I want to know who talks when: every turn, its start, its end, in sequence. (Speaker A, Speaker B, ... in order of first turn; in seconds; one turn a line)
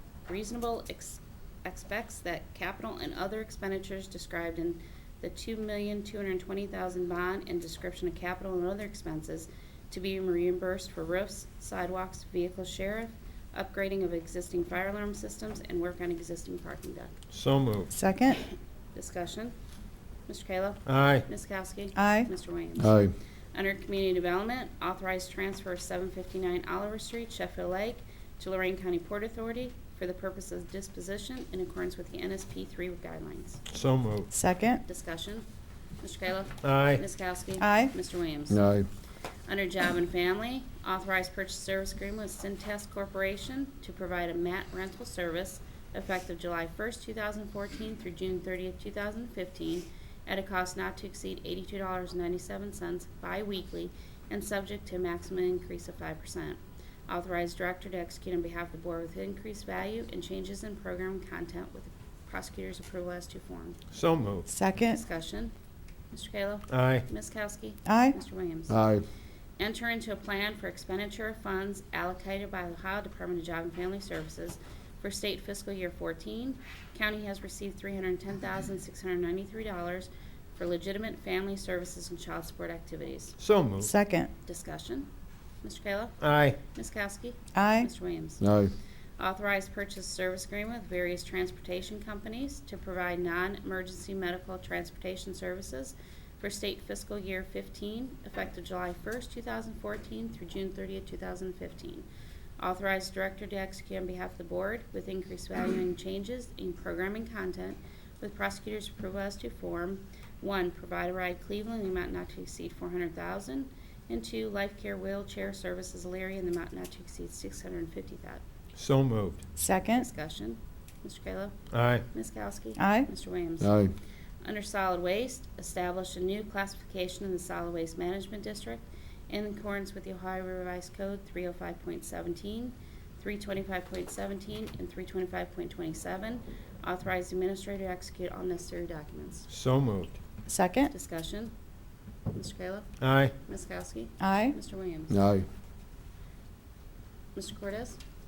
Speaker A: 0.3-17.1
Speaker B: 17.3-17.9
Speaker C: 17.9-18.4
Speaker A: 18.9-19.6
Speaker A: 20.3-33.6
Speaker B: 20.9-21.3
Speaker C: 21.9-22.3
Speaker D: 22.8-23.1
Speaker B: 33.7-34.3
Speaker C: 34.3-34.8
Speaker A: 34.8-35.5
Speaker A: 36.0-38.6
Speaker B: 36.6-37.0
Speaker C: 37.6-37.9
Speaker D: 38.5-38.9
Speaker A: 39.5-63.8
Speaker B: 63.9-64.5
Speaker C: 64.5-65.0
Speaker A: 64.8-65.5
Speaker A: 66.1-68.8
Speaker B: 66.7-67.0
Speaker C: 67.8-68.2
Speaker D: 68.7-69.0
Speaker A: 69.6-83.4
Speaker B: 83.4-83.9
Speaker C: 83.9-84.3
Speaker A: 84.5-85.1
Speaker A: 85.6-88.4
Speaker B: 86.2-86.6
Speaker C: 87.5-87.9
Speaker D: 88.4-88.7
Speaker A: 89.2-102.1
Speaker A: 102.6-118.4
Speaker B: 118.8-119.4
Speaker C: 119.6-120.1
Speaker A: 119.9-123.8
Speaker B: 121.7-122.0
Speaker C: 122.8-123.1
Speaker D: 123.6-123.9
Speaker A: 124.4-139.5
Speaker B: 139.5-140.2
Speaker C: 140.5-140.9
Speaker A: 140.9-141.5
Speaker A: 142.3-145.2
Speaker B: 143.0-143.3
Speaker C: 144.2-144.6
Speaker D: 145.1-145.5
Speaker A: 147.3-148.0